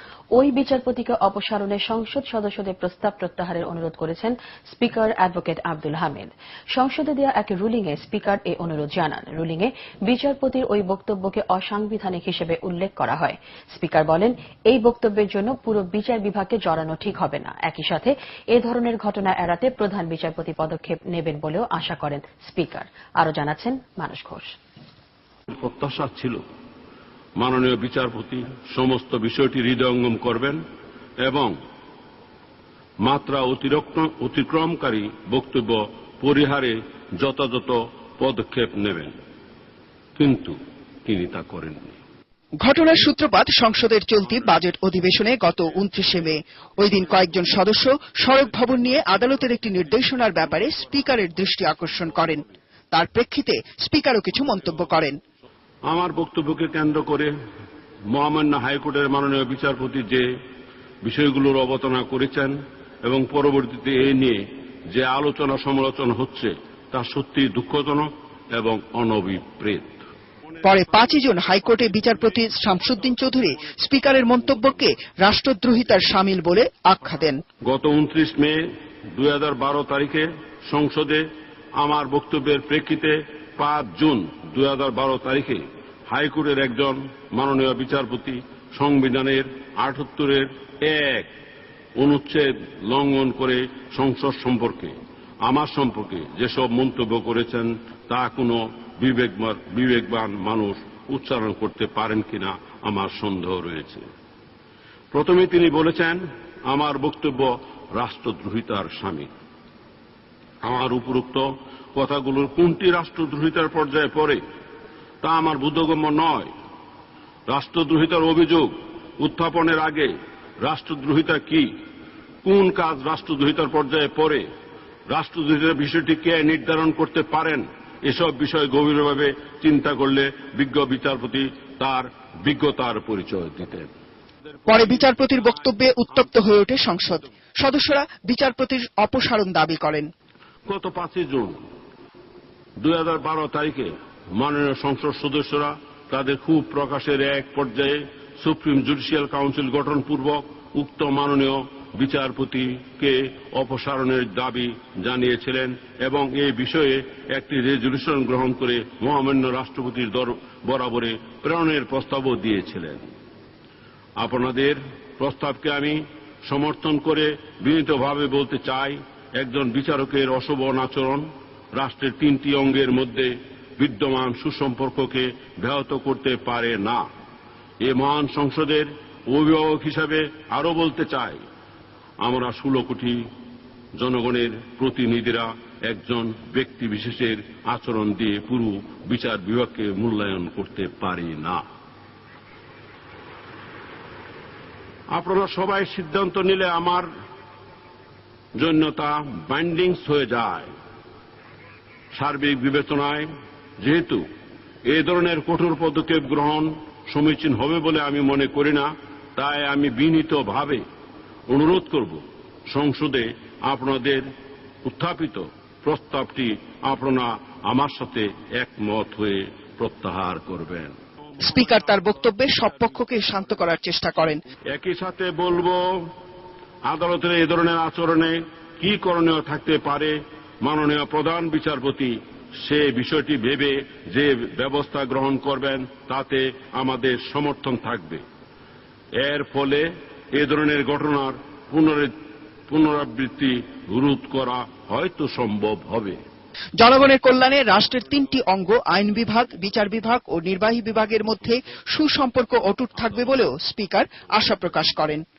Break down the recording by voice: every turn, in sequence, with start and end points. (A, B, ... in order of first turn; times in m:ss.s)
0:00.4-0:24.5 A
0:25.5-0:26.4 B
0:27.4-0:30.6 B
0:31.2-0:31.6 B
0:33.0-0:39.2 B
0:40.2-0:42.0 B
0:42.6-0:55.2 C
0:55.9-0:57.3 B
0:58.1-1:00.3 B
1:01.0-1:10.0 B
1:10.6-1:17.4 C
1:17.6-1:18.6 B
1:19.2-1:21.2 B
1:21.8-1:31.3 B
1:32.0-1:44.0 B
1:45.1-1:49.3 B
1:50.6-1:54.4 B
1:55.2-1:56.5 B
1:57.5-2:01.7 B
2:02.4-2:04.4 B
2:05.1-2:13.9 B
2:14.7-2:20.1 C
2:20.7-2:21.6 B
2:22.8-2:43.1 B
2:44.2-2:57.0 B
2:57.8-3:01.4 B
3:02.2-3:03.2 B
3:04.0-3:11.6 B
3:15.1-3:17.1 B
3:18.6-3:20.7 B
3:22.1-3:24.2 B
3:24.9-3:30.8 B
3:31.5-3:34.3 B
3:34.8-3:41.0 B
3:41.4-3:44.4 C
3:44.7-3:46.1 B
3:46.9-3:58.2 B
3:59.2-4:02.1 B
4:02.7-4:06.2 B
4:06.8-4:15.2 C